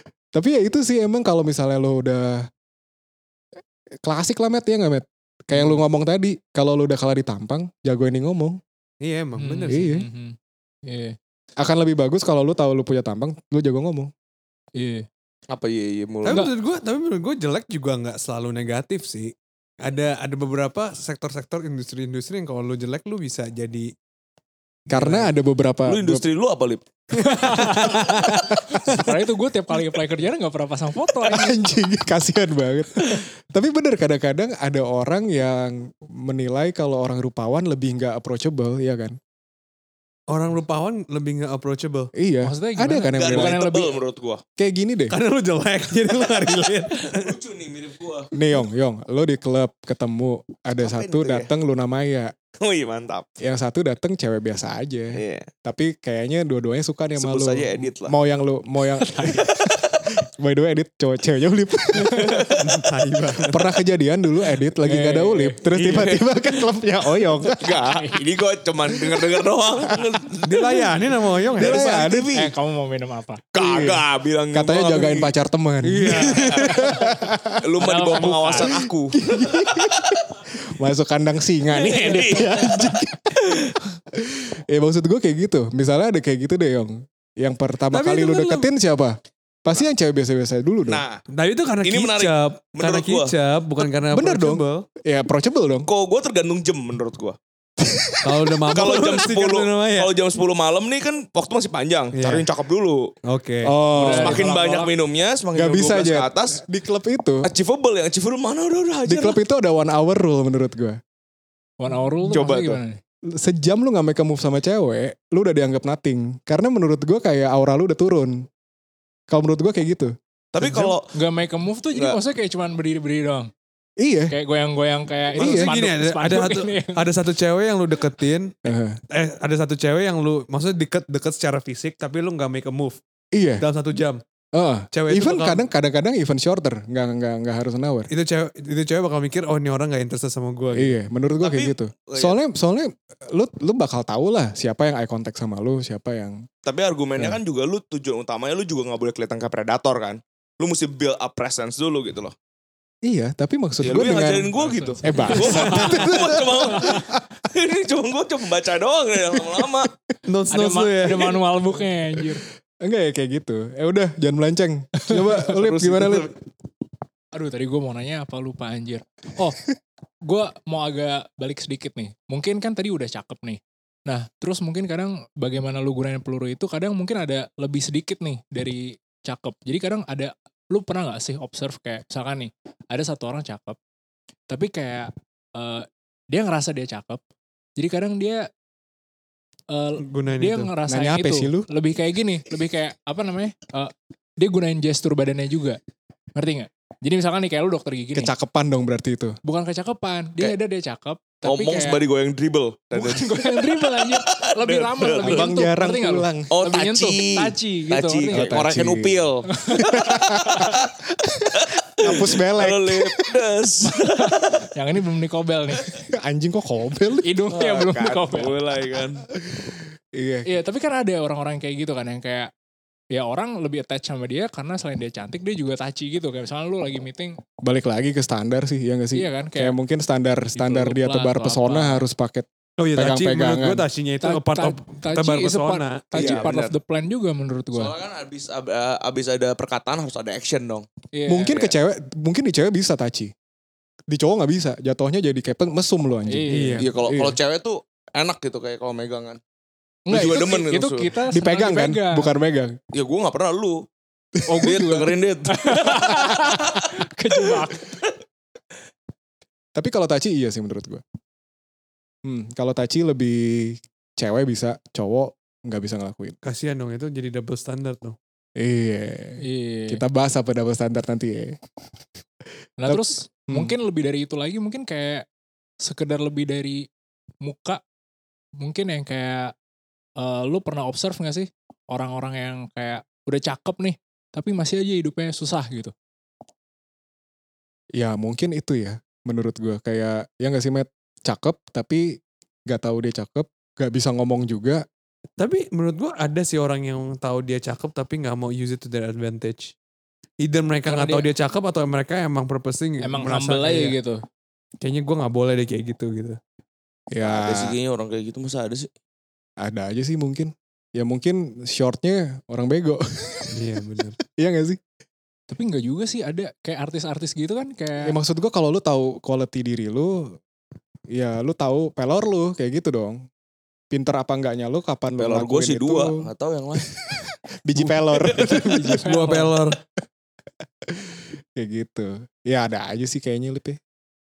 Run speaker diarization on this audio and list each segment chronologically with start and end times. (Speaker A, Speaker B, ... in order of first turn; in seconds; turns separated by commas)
Speaker A: 0.3-2.5, Speaker A: 4.0-8.6, Speaker B: 9.0-9.9, Speaker C: 9.4-11.2, Speaker A: 9.7-10.1, Speaker A: 11.6-14.1, Speaker C: 14.8-15.1, Speaker D: 15.5-16.4, Speaker B: 16.2-23.9, Speaker A: 24.9-26.2, Speaker B: 24.9-25.3, Speaker D: 25.9-26.8, Speaker C: 27.2-31.8, Speaker B: 27.2-28.5, Speaker A: 31.3-39.2, Speaker B: 40.3-42.1, Speaker A: 42.1-43.6, Speaker C: 42.4-44.0, Speaker D: 43.1-44.4, Speaker A: 44.6-45.1, Speaker B: 45.1-47.3, Speaker D: 47.0-48.3, Speaker A: 48.3-52.3, Speaker D: 50.8-51.5, Speaker D: 52.6-53.3, Speaker A: 53.4-62.4, Speaker D: 55.1-55.5, Speaker D: 57.2-58.1, Speaker C: 59.0-59.5, Speaker D: 59.3-60.0, Speaker C: 62.1-62.4, Speaker D: 62.2-62.6, Speaker B: 62.6-63.7, Speaker A: 63.5-67.7, Speaker C: 64.8-65.6, Speaker D: 65.7-66.3, Speaker D: 67.6-70.8, Speaker C: 67.7-68.2, Speaker B: 70.4-71.9, Speaker D: 71.5-72.5, Speaker A: 71.6-72.4, Speaker C: 72.3-73.4, Speaker D: 73.5-75.3, Speaker A: 73.5-77.6, Speaker B: 75.8-77.0, Speaker D: 76.2-76.8, Speaker D: 77.6-80.2, Speaker C: 77.8-78.7, Speaker A: 78.5-91.0, Speaker D: 81.7-82.9, Speaker C: 82.0-82.4, Speaker B: 87.9-88.7, Speaker D: 90.8-91.2, Speaker B: 91.3-94.8, Speaker D: 91.8-93.3, Speaker A: 94.1-95.9, Speaker D: 95.9-97.4, Speaker A: 97.8-98.3, Speaker B: 98.2-100.1, Speaker D: 98.7-103.1, Speaker B: 102.1-102.5, Speaker B: 103.3-104.4, Speaker A: 103.6-104.4, Speaker C: 103.9-104.9, Speaker D: 104.2-106.6, Speaker A: 105.5-107.5, Speaker D: 107.4-109.4, Speaker A: 109.0-111.0, Speaker C: 111.8-113.0, Speaker D: 112.3-112.8, Speaker A: 113.3-118.5, Speaker A: 119.3-120.9, Speaker D: 120.5-121.1, Speaker C: 121.1-123.5, Speaker A: 124.0-124.3, Speaker C: 124.3-127.1, Speaker A: 125.3-125.7, Speaker B: 125.4-128.5, Speaker A: 128.6-129.0, Speaker B: 129.1-133.0, Speaker A: 133.3-133.6, Speaker B: 133.6-134.2, Speaker A: 134.5-138.1, Speaker B: 134.9-135.6, Speaker B: 138.1-140.9, Speaker A: 140.7-146.4, Speaker D: 141.4-142.3, Speaker D: 146.6-152.3, Speaker A: 153.0-154.5, Speaker D: 153.8-159.9, Speaker C: 154.6-157.0, Speaker A: 155.0-157.2, Speaker A: 159.3-159.6, Speaker B: 160.3-161.4, Speaker C: 160.5-162.4, Speaker A: 162.8-166.3, Speaker C: 165.0-166.1, Speaker D: 165.9-166.3, Speaker C: 167.3-169.6, Speaker C: 170.2-183.8, Speaker C: 184.5-187.2, Speaker C: 187.8-188.5, Speaker C: 189.7-195.8, Speaker B: 190.0-190.7, Speaker A: 190.9-191.7, Speaker C: 196.3-198.3, Speaker A: 198.1-199.4, Speaker C: 199.4-202.0, Speaker D: 201.4-205.5, Speaker C: 202.9-208.6, Speaker A: 205.2-206.5, Speaker D: 206.5-210.9, Speaker A: 208.3-213.2, Speaker C: 209.5-210.8, Speaker D: 211.6-214.7, Speaker C: 213.8-216.0, Speaker A: 216.1-217.3, Speaker C: 217.2-218.6, Speaker D: 217.5-219.3, Speaker A: 219.4-220.5, Speaker C: 220.4-222.5, Speaker C: 223.1-227.4, Speaker A: 227.6-233.8, Speaker C: 229.1-229.8, Speaker C: 230.6-232.0, Speaker B: 232.8-236.4, Speaker C: 234.2-237.9, Speaker D: 236.2-236.7, Speaker D: 237.7-240.9, Speaker C: 241.1-241.7, Speaker A: 241.3-243.3, Speaker A: 244.1-247.4, Speaker C: 246.3-246.8, Speaker B: 246.5-246.9, Speaker D: 246.8-249.4, Speaker C: 250.1-252.3, Speaker D: 250.1-251.1, Speaker A: 251.3-252.8, Speaker D: 252.9-253.9, Speaker C: 254.5-258.0, Speaker D: 254.6-256.7, Speaker A: 259.8-261.0, Speaker A: 262.2-266.4, Speaker B: 266.4-268.2, Speaker A: 268.6-271.6, Speaker C: 269.4-270.0, Speaker C: 272.8-275.2, Speaker A: 272.8-273.7, Speaker C: 275.8-276.9, Speaker C: 277.4-277.8, Speaker C: 278.6-279.5, Speaker C: 280.2-285.9, Speaker A: 288.0-294.8, Speaker B: 295.4-299.7, Speaker B: 300.4-303.9, Speaker C: 300.9-301.3, Speaker C: 303.0-304.2, Speaker B: 304.8-306.4, Speaker A: 307.1-307.8, Speaker D: 307.2-308.9, Speaker A: 309.6-313.5, Speaker B: 313.5-314.2, Speaker A: 314.3-314.8, Speaker C: 315.5-318.1, Speaker A: 318.0-320.4, Speaker A: 321.1-323.2, Speaker A: 323.9-329.1, Speaker D: 325.2-326.9, Speaker B: 327.8-329.8, Speaker C: 328.7-329.5, Speaker A: 330.8-333.8